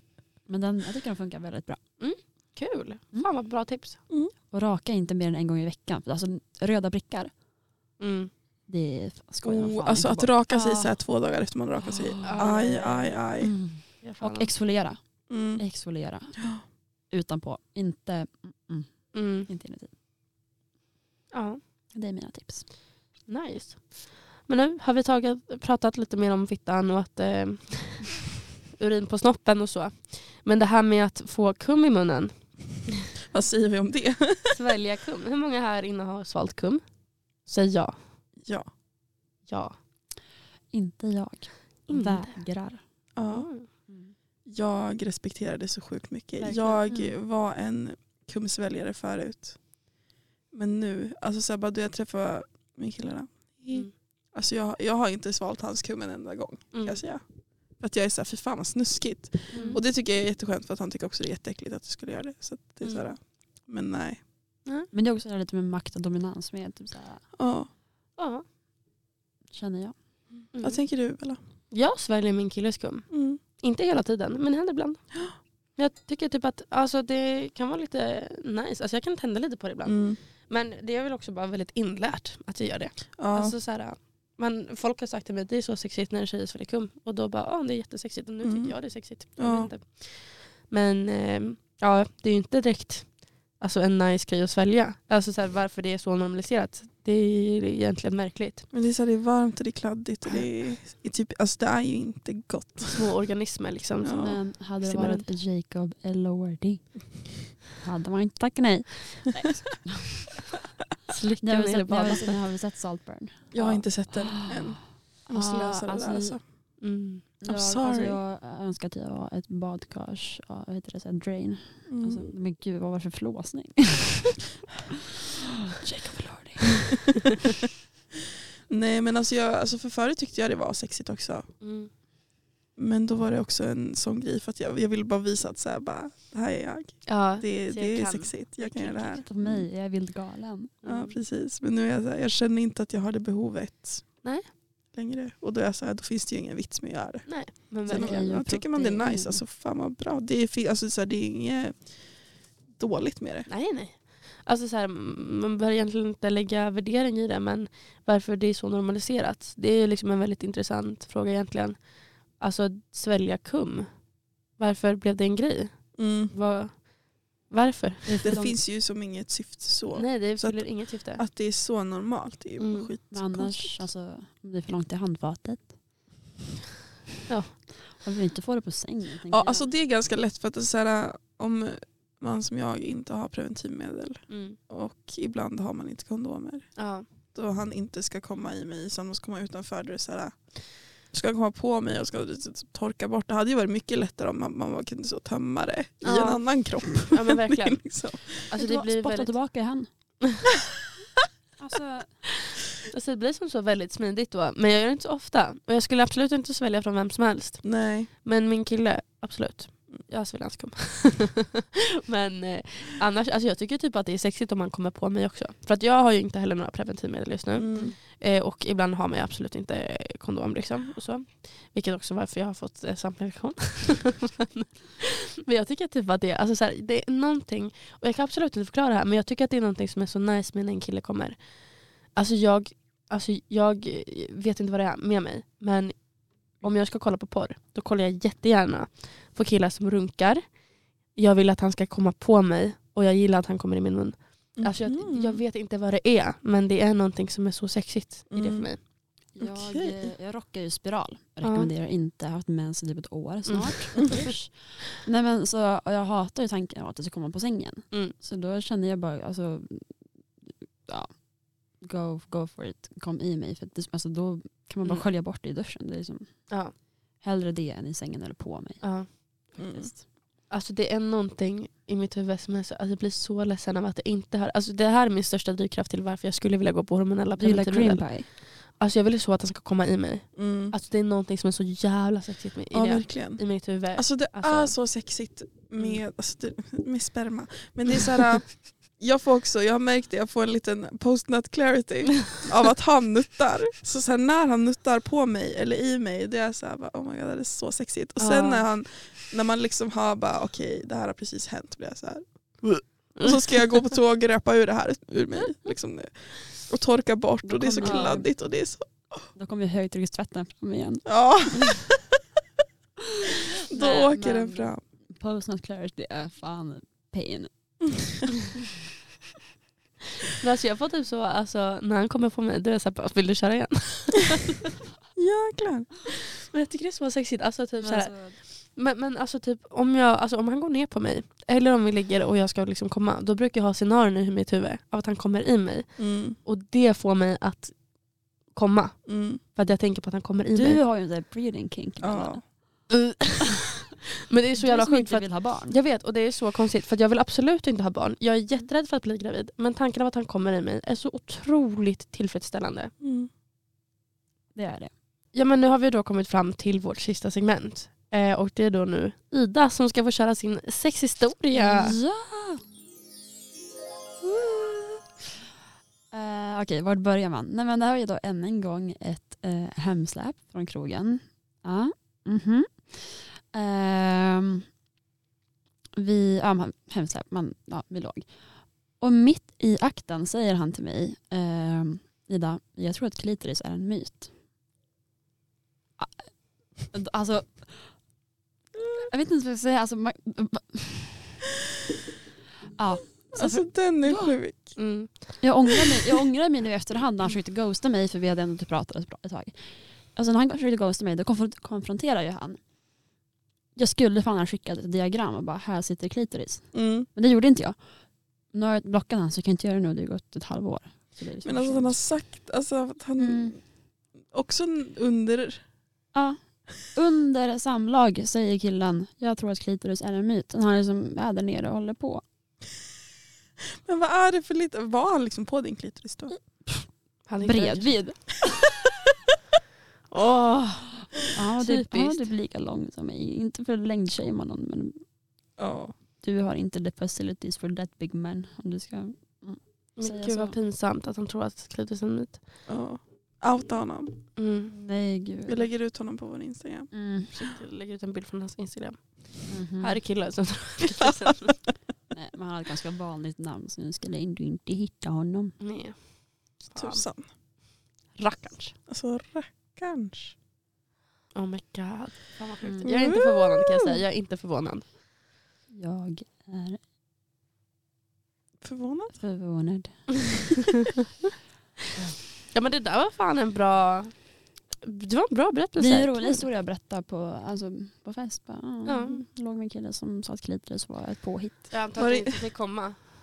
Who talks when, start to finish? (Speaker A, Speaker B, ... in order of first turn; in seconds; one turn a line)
Speaker A: 0.5-1.8
Speaker B: 2.0-4.0
Speaker A: 4.5-7.3
Speaker B: 8.0-8.3
Speaker A: 8.7-10.9
Speaker C: 9.4-13.5
Speaker A: 11.8-12.7
Speaker B: 12.2-13.2
Speaker A: 13.4-15.0
Speaker B: 14.0-14.5
Speaker C: 15.3-15.6
Speaker A: 15.5-16.4
Speaker A: 17.1-19.9
Speaker B: 19.1-19.5
Speaker B: 21.3-21.6
Speaker A: 21.9-22.7
Speaker B: 23.3-32.3
Speaker C: 33.3-34.5
Speaker B: 34.5-36.8
Speaker B: 37.4-38.0
Speaker B: 39.5-39.8
Speaker A: 40.7-42.8
Speaker B: 41.9-42.4
Speaker C: 43.1-43.5
Speaker B: 43.3-43.7
Speaker A: 43.9-44.1
Speaker C: 44.4-49.6
Speaker B: 46.4-46.8
Speaker A: 46.9-47.1
Speaker C: 50.5-57.2
Speaker B: 56.7-57.0
Speaker C: 57.8-64.2
Speaker A: 59.5-59.8
Speaker B: 59.5-59.8
Speaker A: 64.9-67.2
Speaker C: 67.3-67.7
Speaker B: 68.2-68.4
Speaker A: 69.5-69.9
Speaker B: 70.5-70.8
Speaker C: 70.6-71.4
Speaker B: 71.7-75.0
Speaker C: 73.1-73.4
Speaker B: 75.8-98.7
Speaker C: 79.8-80.2
Speaker C: 83.2-83.5
Speaker C: 88.4-88.7
Speaker C: 89.4-89.7
Speaker C: 98.7-103.1
Speaker B: 102.9-105.3
Speaker C: 104.0-104.4
Speaker A: 104.1-106.9
Speaker A: 107.6-110.5
Speaker B: 111.1-112.4
Speaker A: 111.4-116.4
Speaker C: 113.5-116.4
Speaker B: 116.8-117.2
Speaker A: 117.4-124.5
Speaker C: 117.5-118.2
Speaker C: 121.9-122.3
Speaker A: 125.4-127.1
Speaker C: 128.7-131.4
Speaker B: 131.6-131.9
Speaker C: 132.8-139.6
Speaker B: 137.1-139.2
Speaker A: 139.0-140.7
Speaker B: 140.8-141.2
Speaker C: 140.8-144.2
Speaker C: 144.9-151.9
Speaker B: 147.2-148.3
Speaker A: 147.9-149.4
Speaker C: 152.7-153.5
Speaker B: 153.5-161.8
Speaker B: 162.3-163.9
Speaker B: 164.6-166.8
Speaker C: 166.0-166.3
Speaker B: 167.5-168.4
Speaker A: 168.2-168.6
Speaker C: 168.2-173.7
Speaker B: 169.9-171.2
Speaker B: 172.6-172.9
Speaker A: 173.1-175.7
Speaker A: 178.0-179.7
Speaker C: 179.3-186.8
Speaker B: 184.3-184.6
Speaker B: 186.8-187.0
Speaker C: 187.3-190.4
Speaker C: 191.0-198.4
Speaker B: 196.0-199.3
Speaker A: 198.5-199.9
Speaker A: 201.6-202.2
Speaker B: 202.9-231.4
Speaker C: 207.6-208.1
Speaker C: 217.6-217.9
Speaker B: 232.1-236.0
Speaker B: 236.6-240.4
Speaker B: 241.1-248.8
Speaker C: 244.6-245.4
Speaker C: 248.3-248.7
Speaker A: 249.3-259.9
Speaker C: 249.4-250.1
Speaker B: 251.4-251.7
Speaker B: 253.5-254.3
Speaker A: 260.9-261.1
Speaker A: 261.8-266.5
Speaker A: 267.2-270.0
Speaker B: 268.8-269.1
Speaker C: 269.6-269.9
Speaker B: 270.5-284.7
Speaker A: 277.4-278.3
Speaker C: 280.4-280.7
Speaker C: 282.7-308.9
Speaker B: 298.2-298.6
Speaker B: 303.1-303.7
Speaker A: 307.4-308.3
Speaker B: 307.8-308.1
Speaker A: 309.4-311.2
Speaker C: 311.1-311.9
Speaker A: 313.2-317.5
Speaker C: 313.5-314.8
Speaker B: 320.3-324.7
Speaker C: 325.1-325.9
Speaker B: 326.4-337.7
Speaker A: 327.8-328.4
Speaker C: 336.0-336.4
Speaker B: 338.5-340.8
Speaker C: 339.1-339.4
Speaker A: 340.5-342.4
Speaker C: 342.0-342.4
Speaker B: 342.9-343.7
Speaker B: 344.3-352.9
Speaker A: 344.6-345.7
Speaker C: 353.0-353.3
Speaker A: 354.5-354.9
Speaker B: 355.3-361.9
Speaker A: 361.5-362.6
Speaker A: 364.2-365.0
Speaker A: 366.1-374.6
Speaker A: 376.0-378.3
Speaker A: 379.0-384.3
Speaker A: 386.0-386.3
Speaker A: 386.8-387.9
Speaker A: 389.0-391.5
Speaker A: 392.8-394.3
Speaker C: 393.3-394.8
Speaker B: 394.8-395.1
Speaker A: 395.4-399.5
Speaker A: 400.1-402.6
Speaker A: 403.8-407.8
Speaker C: 406.7-407.1
Speaker A: 408.5-412.0
Speaker C: 411.4-413.6
Speaker A: 413.2-413.6
Speaker C: 414.3-415.6
Speaker A: 416.1-422.2
Speaker C: 423.6-426.3
Speaker B: 427.3-427.9
Speaker A: 427.4-428.7
Speaker B: 430.1-432.2
Speaker A: 431.3-435.0
Speaker C: 435.6-435.9
Speaker A: 436.2-440.6
Speaker B: 440.0-442.4
Speaker C: 442.7-444.3
Speaker B: 444.4-444.7
Speaker A: 444.7-445.7
Speaker C: 445.4-447.5
Speaker A: 446.9-447.3
Speaker B: 447.4-451.6
Speaker A: 449.5-450.0
Speaker A: 452.1-455.6
Speaker B: 455.6-456.0
Speaker B: 456.6-457.1
Speaker C: 456.8-457.3
Speaker B: 458.2-458.7
Speaker C: 458.9-460.3
Speaker B: 461.3-464.8
Speaker C: 462.8-464.0
Speaker A: 465.7-466.8
Speaker C: 468.6-469.1
Speaker A: 469.1-470.4
Speaker B: 470.5-470.9
Speaker B: 472.5-474.1
Speaker B: 474.8-476.4
Speaker A: 475.8-481.8
Speaker B: 478.8-479.2
Speaker B: 481.7-483.1
Speaker C: 482.0-482.4